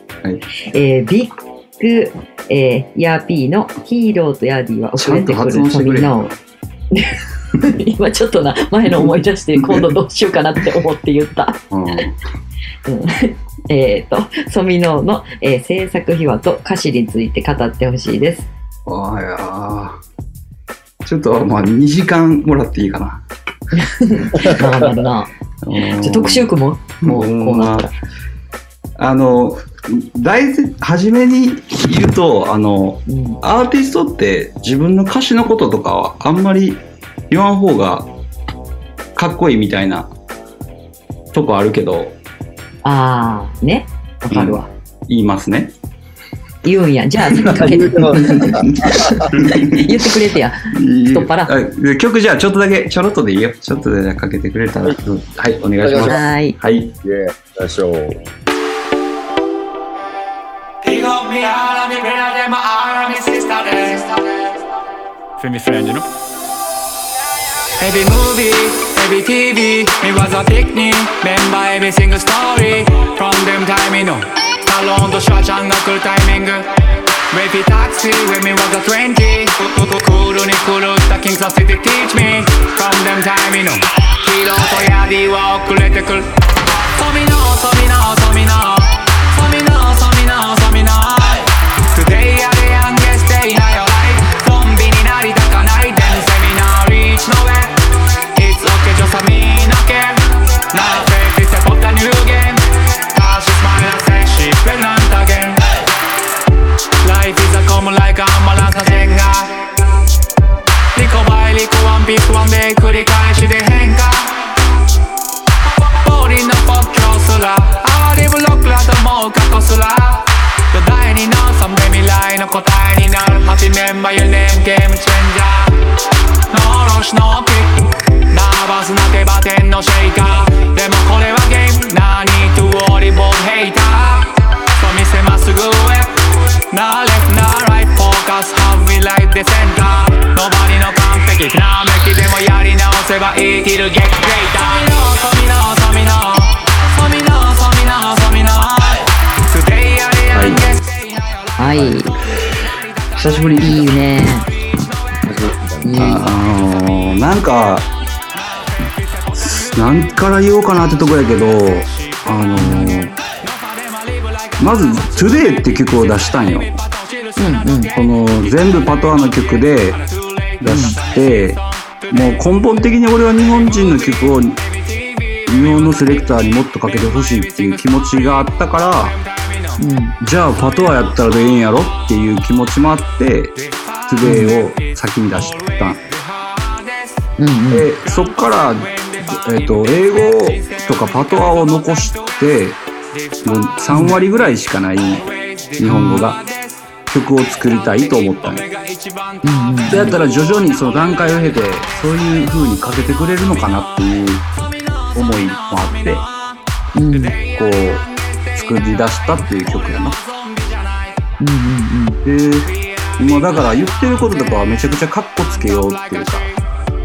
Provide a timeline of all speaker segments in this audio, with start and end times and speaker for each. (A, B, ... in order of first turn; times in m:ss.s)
0:00.6-0:06.3 A
0:05.0-0:06.4 B
0:06.9-0:12.1 A
0:11.7-0:12.2 B
0:12.9-0:18.5 A
0:18.9-0:20.0 B
0:21.0-0:23.2 B
0:23.8-0:25.3 A
0:25.6-0:26.5 B
0:26.0-0:27.9 A
0:27.0-0:27.9 B
0:29.0-0:38.1 B
0:33.1-0:33.4 A
0:39.2-0:40.1 B
0:41.3-0:42.2 B
0:42.8-0:44.7 A
0:44.3-0:45.7 B
0:46.6-0:51.5 A
0:47.4-0:49.3 C
0:47.5-0:50.1 B
0:50.7-0:57.0 B
0:55.8-0:56.2 C
0:56.1-0:56.6 A
0:57.0-0:58.2 C
1:00.8-1:04.6 D
1:05.4-1:06.1 D
1:07.8-1:16.7 D
1:17.3-1:45.7 D
1:47.0-1:49.7 D
1:50.9-1:54.5 D
1:55.6-2:05.8 D
2:06.5-2:32.0 D
2:30.3-2:30.7 B
2:31.6-2:32.1 A
2:32.7-2:35.1 D
2:33.2-2:33.9 B
2:33.6-2:34.5 A
2:35.3-2:36.2 C
2:35.8-2:36.3 A
2:36.0-2:37.9 B
2:38.4-2:39.8 D
2:39.4-2:43.2 B
2:42.6-2:43.0 A
2:43.4-2:59.8 D
2:44.6-2:46.7 B
2:47.4-2:47.9 A
2:47.9-2:50.0 B
2:50.6-2:51.6 B
2:50.7-2:51.0 A
2:52.1-2:54.6 B
2:55.5-2:59.2 B
2:59.8-3:00.2 A
3:00.2-3:03.5 B
3:03.6-3:07.2 D
3:04.1-3:06.0 B
3:04.2-3:04.5 A
3:07.4-3:07.9 A
3:07.7-3:12.8 B
3:08.0-3:12.4 D
3:13.4-3:15.3 B
3:13.9-3:14.2 A
3:15.0-3:16.9 D
3:15.8-3:16.4 B
3:15.8-3:16.2 A
3:17.1-3:18.6 B
3:17.4-3:22.5 D
3:19.4-3:20.2 A
3:19.9-3:24.5 B
3:24.7-3:26.6 D
3:25.1-3:26.2 B
3:27.0-3:27.4 A
3:27.1-3:31.2 D
3:27.6-3:30.2 B
3:31.4-3:32.2 A
3:32.2-3:36.5 B
3:32.6-3:34.6 D
3:35.5-3:36.6 D